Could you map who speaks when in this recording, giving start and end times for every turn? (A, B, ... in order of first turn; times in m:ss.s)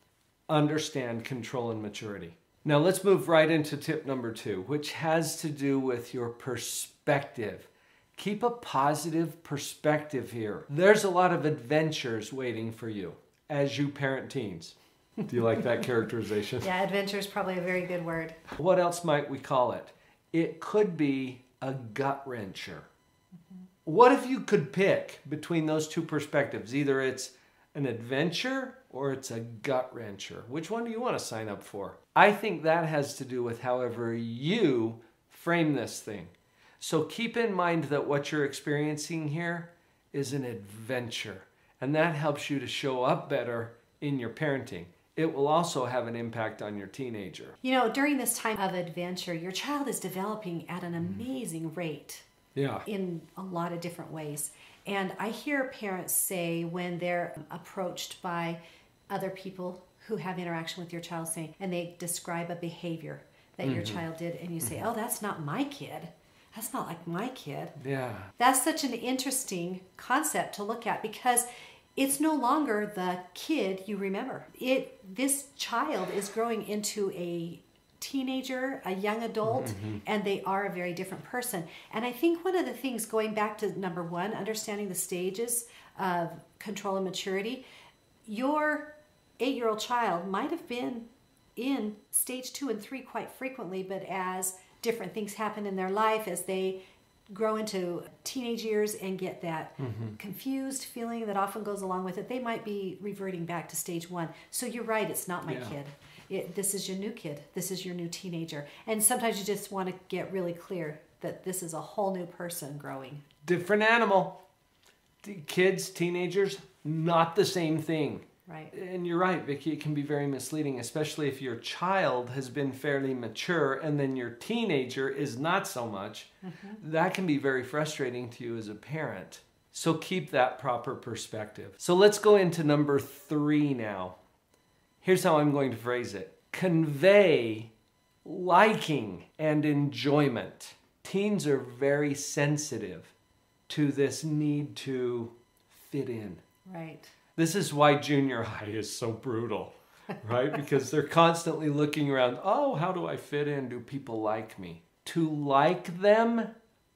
0:00.5-0:16.7 A
0:16.6-0:18.4 B
0:18.5-0:22.9 A
0:23.8-0:47.6 A
0:47.6-0:52.2 B
0:52.5-0:52.9 A
0:52.8-0:58.6 B
0:59.1-1:07.8 B
1:03.6-1:04.0 A
1:07.8-1:08.3 A
1:08.4-1:27.6 B
1:19.5-1:20.0 A
1:28.2-1:36.8 B
1:37.3-1:53.2 B
1:39.8-1:40.2 A
1:45.5-1:45.8 A
1:53.4-1:54.4 A
1:55.2-2:14.2 A
1:58.5-1:58.7 B
2:06.4-2:06.8 B
2:15.0-2:17.7 A
2:18.2-2:23.1 A
2:23.7-2:26.4 A
2:26.6-2:27.1 B
2:27.4-2:36.5 A